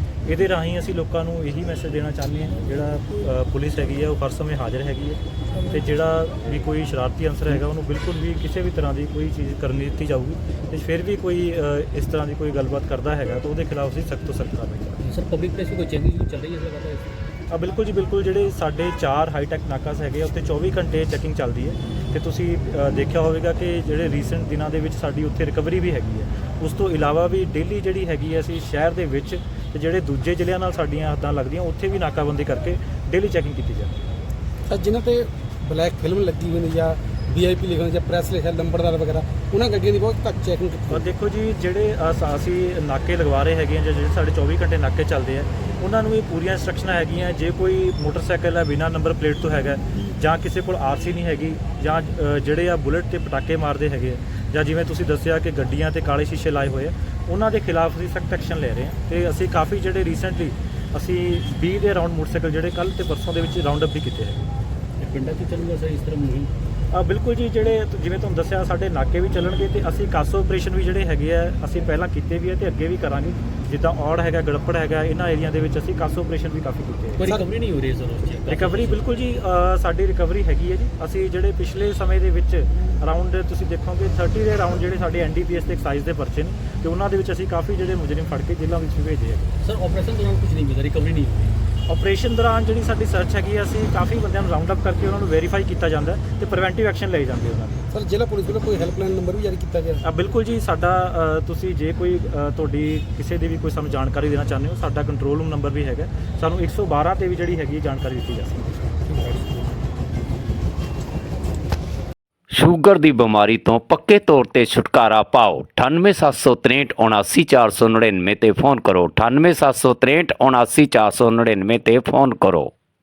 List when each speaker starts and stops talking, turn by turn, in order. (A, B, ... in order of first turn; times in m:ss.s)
0:00.2-0:15.0 A
0:15.0-0:17.1 B
0:17.5-0:34.0 A
0:34.7-0:41.1 C
0:40.9-1:04.4 A
1:05.0-1:06.5 B
1:06.9-1:17.2 A
1:17.2-1:19.0 B
1:18.5-1:29.5 A
1:29.6-1:31.6 B
1:31.9-1:37.8 A
1:37.9-1:40.0 C
1:40.0-1:48.7 A
1:52.5-2:02.7 D